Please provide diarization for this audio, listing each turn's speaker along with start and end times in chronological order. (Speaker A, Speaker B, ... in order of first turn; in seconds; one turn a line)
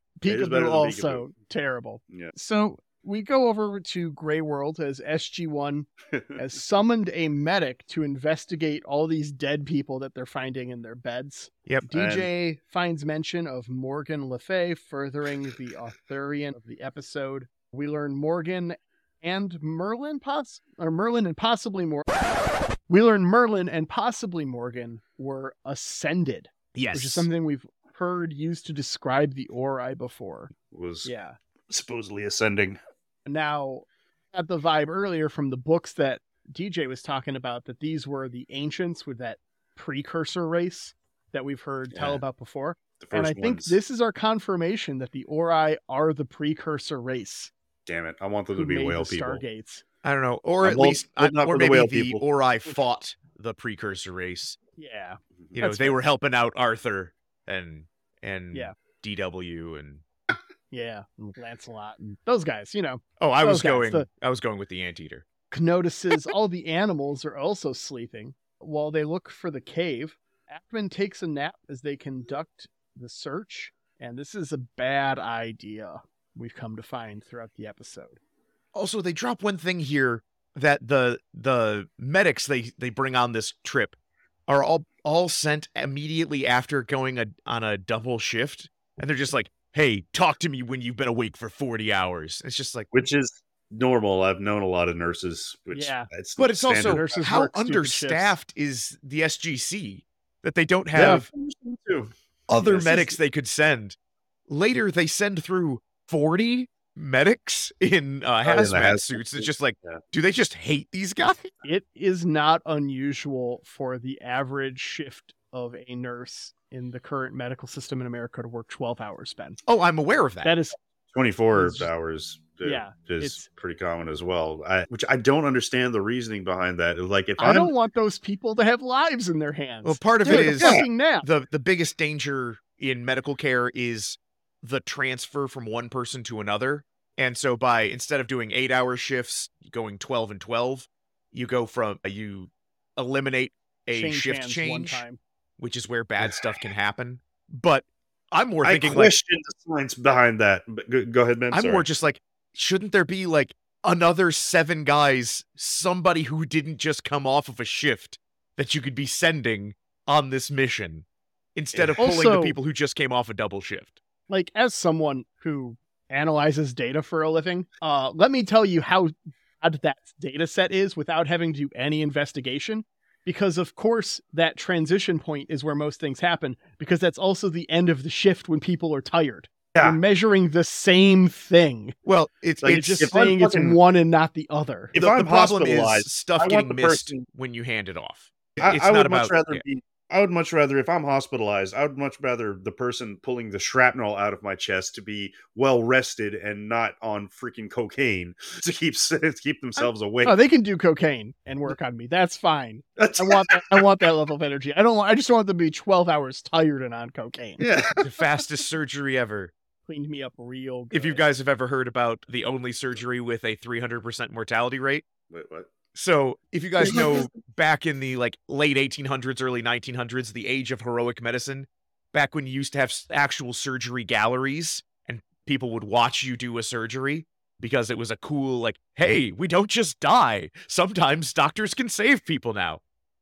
Speaker A: 0.2-22.1
Speaker B: 0.2-1.3
Speaker B: 11.9-12.3
Speaker A: 22.9-30.5
Speaker C: 26.8-27.3
Speaker B: 30.7-31.1
Speaker A: 31.0-31.4
Speaker B: 31.7-32.8
Speaker A: 33.3-47.5
Speaker B: 41.9-42.2
Speaker B: 43.0-43.8
Speaker B: 47.9-49.4
Speaker A: 48.5-49.8
Speaker C: 50.0-54.6
Speaker B: 50.6-52.2
Speaker A: 54.8-56.0
Speaker C: 55.6-60.0
Speaker A: 60.7-64.1
Speaker C: 63.2-65.3
Speaker A: 65.5-78.2
Speaker C: 78.7-84.0
Speaker C: 84.5-92.9
Speaker B: 92.9-97.1
Speaker A: 95.7-96.1
Speaker C: 96.4-101.3
Speaker A: 96.8-98.3
Speaker B: 100.9-103.2
Speaker C: 102.5-104.0
Speaker C: 104.5-111.5
Speaker B: 108.4-110.0
Speaker A: 111.6-119.6
Speaker C: 119.7-120.5
Speaker A: 120.4-120.8
Speaker B: 121.1-127.7
Speaker A: 121.5-121.9
Speaker A: 122.6-123.5
Speaker A: 127.4-131.3
Speaker C: 129.8-145.0
Speaker B: 130.3-130.9
Speaker A: 143.9-145.2
Speaker C: 145.6-149.2
Speaker B: 148.6-151.9
Speaker C: 151.5-164.0
Speaker B: 161.7-162.2
Speaker A: 162.0-162.6
Speaker A: 164.3-182.0
Speaker C: 182.1-183.1
Speaker B: 182.6-183.8
Speaker A: 182.7-184.9
Speaker B: 184.9-187.2
Speaker C: 185.0-189.6
Speaker B: 188.6-200.4
Speaker A: 199.8-207.6
Speaker B: 203.0-203.9
Speaker B: 207.6-208.1
Speaker C: 208.0-209.5
Speaker A: 209.9-211.2
Speaker C: 210.9-215.1
Speaker B: 215.3-215.7
Speaker C: 215.9-232.8
Speaker B: 216.8-217.2